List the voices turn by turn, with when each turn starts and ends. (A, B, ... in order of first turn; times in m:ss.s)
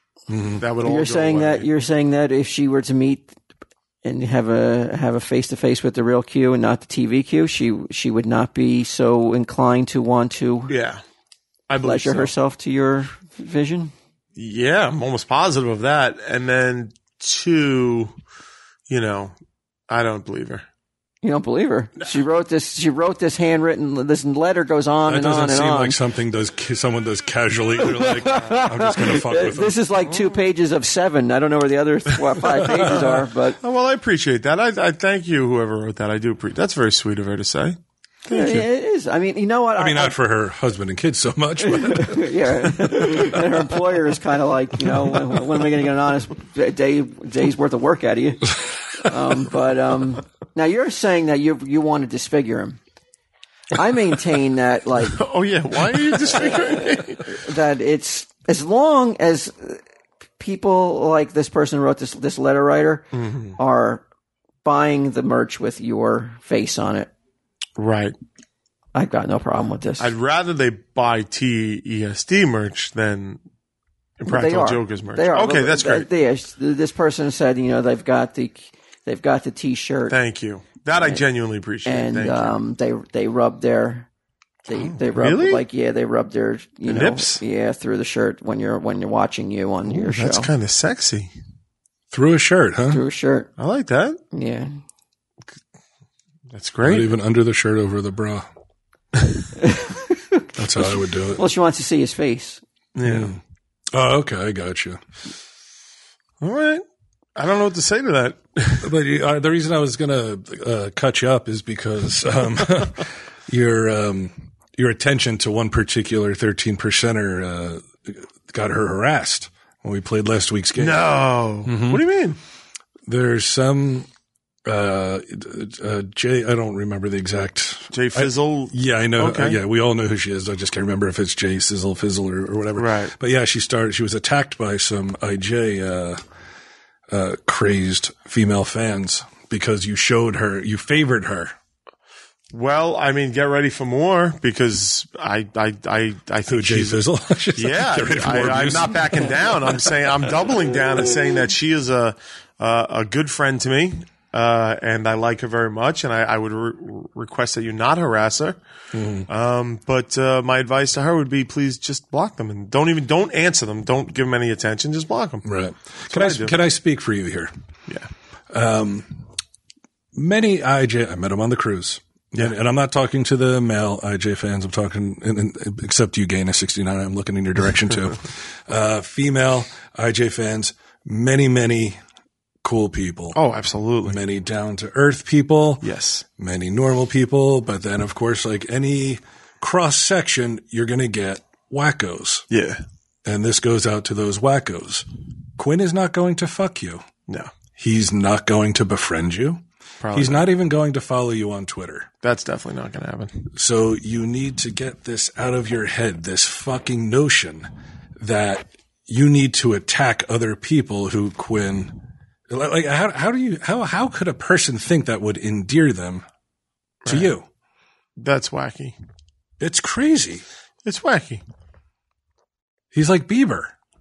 0:00.3-0:00.6 A
0:00.6-0:01.7 B
0:00.8-0:03.3 C
0:04.0-0:10.7 C
0:10.7-0:11.0 B
0:11.7-0:12.3 B
0:11.8-0:13.9 C
0:14.4-0:18.1 B
0:18.9-0:19.4 B
0:19.9-0:20.6 B
0:21.2-0:26.0 C
0:25.1-0:29.8 A
0:27.8-0:33.6 C
0:30.1-0:30.3 B
0:33.6-0:37.8 B
0:38.3-0:40.2 C
0:38.4-0:38.6 A
0:39.8-0:43.4 A
0:41.6-0:52.8 C
0:53.7-0:55.2 C
0:55.1-0:57.4 B
0:57.2-0:59.8 C
1:00.4-1:04.0 C
1:03.1-1:03.6 B
1:04.6-1:07.1 C
1:07.8-1:08.1 B
1:08.9-1:10.1 C
1:10.0-1:13.4 B
1:14.2-1:16.1 B
1:14.2-1:20.2 C
1:20.1-1:22.6 B
1:21.0-1:21.2 C
1:21.8-1:24.1 C
1:24.6-1:30.5 C
1:24.7-1:25.6 B
1:26.8-1:27.4 B
1:29.8-1:31.3 B
1:32.1-1:33.0 A
1:32.9-1:33.5 C
1:33.6-1:34.2 B
1:34.3-1:34.8 C
1:36.5-1:37.1 B
1:36.8-1:38.4 A
1:39.6-1:42.6 C
1:40.6-1:41.4 A
1:43.0-1:43.3 B
1:43.0-1:43.4 A
1:43.9-1:45.0 A
1:46.4-1:46.8 B
1:47.4-1:48.9 B
1:48.8-2:01.1 A
2:00.8-2:02.4 B
2:01.6-2:02.0 A
2:03.1-2:04.1 A
2:04.6-2:16.2 A
2:07.9-2:09.6 B
2:12.8-2:13.1 B
2:17.1-2:21.5 A
2:22.5-2:27.0 B
2:26.5-2:30.3 A
2:27.6-2:38.6 B
2:38.9-2:39.3 A
2:39.3-2:45.4 B
2:45.4-2:47.5 A
2:46.1-2:46.6 B
2:48.5-2:49.2 A
2:50.1-3:02.0 A
3:02.6-3:03.4 A
3:03.3-3:04.2 B
3:04.0-3:05.8 A
3:05.8-3:06.2 B
3:06.4-3:12.4 A
3:12.5-3:12.8 B
3:13.2-3:15.0 A
3:15.6-3:17.0 A
3:17.3-3:17.5 B
3:17.8-3:22.1 A
3:20.0-3:20.5 B
3:22.2-3:23.4 B
3:23.5-3:31.9 A
3:32.5-3:36.2 A
3:37.0-3:37.3 B
3:37.0-3:37.4 A
3:38.2-3:39.0 B
3:39.6-3:40.4 A
3:40.8-3:41.4 B
3:42.9-3:43.7 A